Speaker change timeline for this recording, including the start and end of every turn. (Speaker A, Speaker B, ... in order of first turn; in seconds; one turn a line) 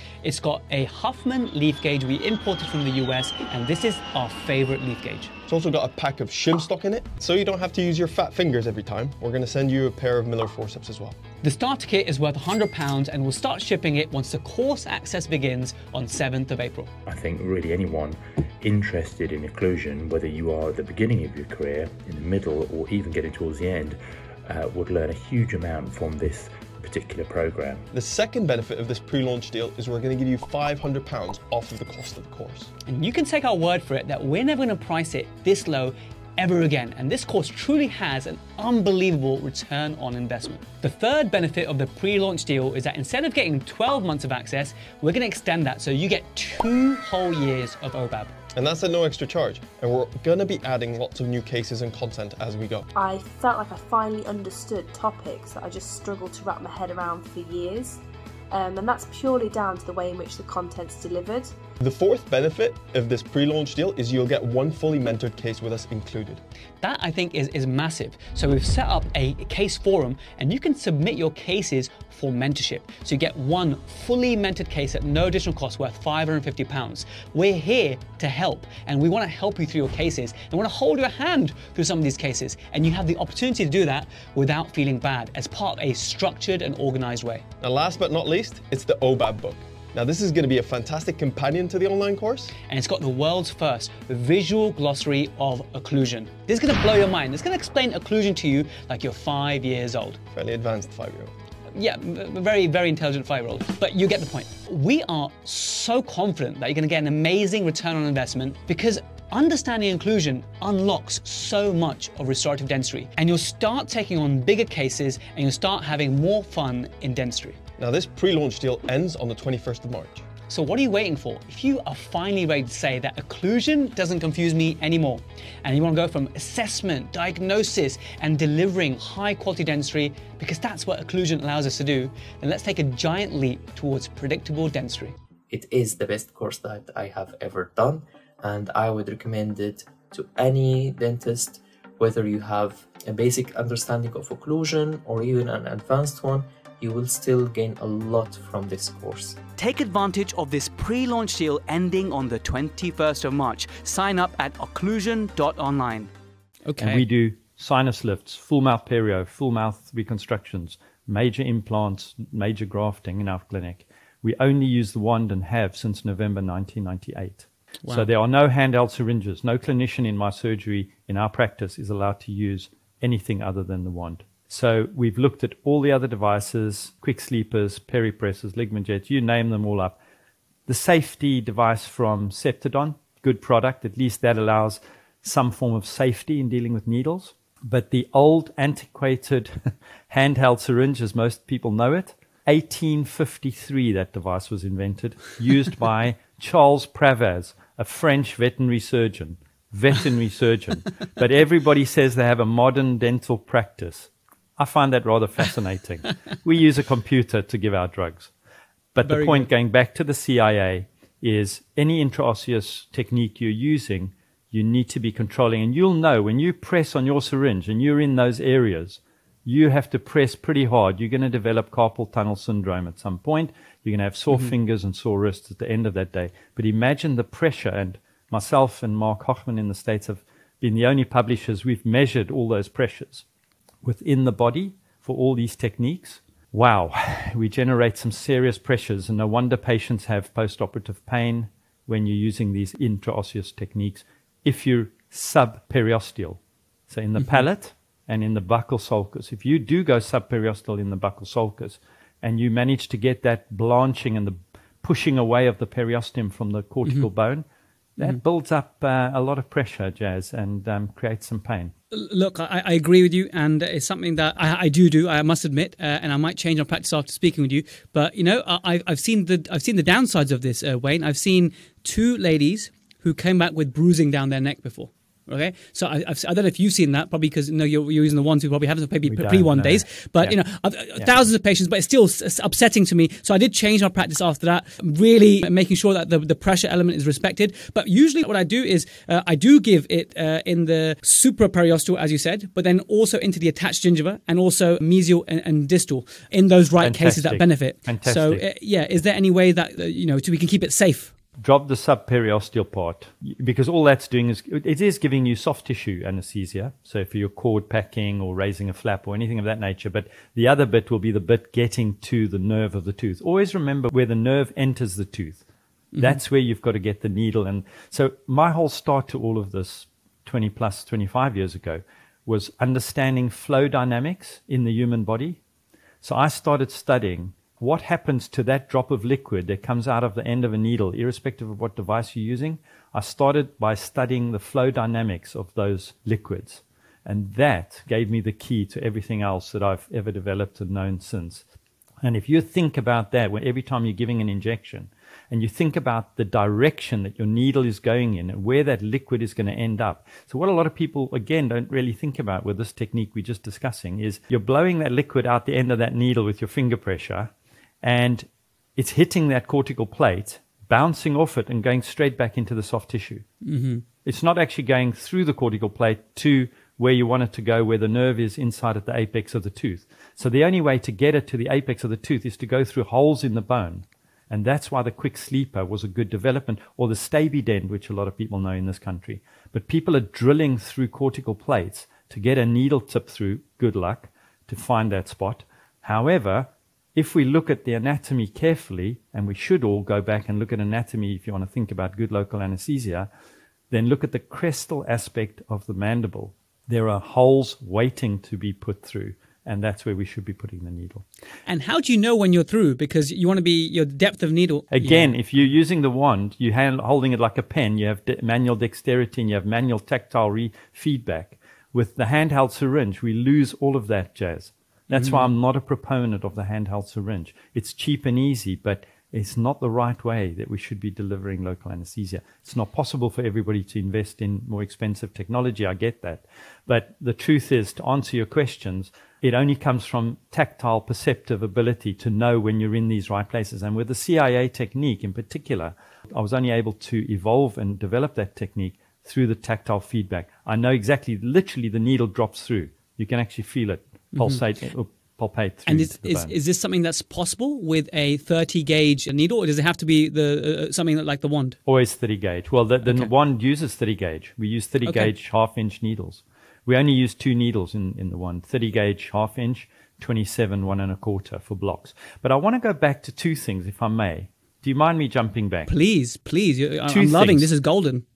Speaker A: 0.2-5.3
Speaker B: 5.5-11.2
Speaker A: 11.4-16.9
Speaker C: 17.1-27.9
Speaker B: 27.9-32.7
Speaker A: 32.9-48.3
Speaker B: 48.5-52.9
Speaker D: 52.9-61.5
Speaker B: 61.8-66.4
Speaker A: 66.8-87.4
Speaker B: 87.6-92.5
Speaker A: 92.7-100.2
Speaker B: 100.3-101.3
Speaker A: 101.7-117.6
Speaker B: 117.8-120.2
Speaker A: 120.5-135.1
Speaker E: 135.5-149.4
Speaker A: 149.6-156.1
Speaker A: 156.6-157.0
Speaker F: 156.8-180.0
Speaker F: 180.7-208.3
Speaker F: 208.9-233.2
Speaker A: 209.1-209.5
Speaker F: 233.8-257.4
Speaker F: 258.0-261.7
Speaker A: 261.9-301.1
Speaker F: 279.1-280.4
Speaker F: 296.8-298.4
Speaker F: 301.4-315.4
Speaker F: 316.0-325.4
Speaker F: 326.0-341.4
Speaker F: 342.0-357.3
Speaker F: 357.8-363.2
Speaker A: 363.4-363.8
Speaker F: 364.0-393.1
Speaker F: 393.7-401.0
Speaker A: 401.4-405.1
Speaker F: 404.7-446.3
Speaker A: 414.9-415.3
Speaker A: 444.1-444.4
Speaker A: 445.7-451.6
Speaker F: 451.6-465.7
Speaker A: 452.8-453.1
Speaker A: 454.8-455.1
Speaker A: 465.7-468.0
Speaker F: 466.9-467.5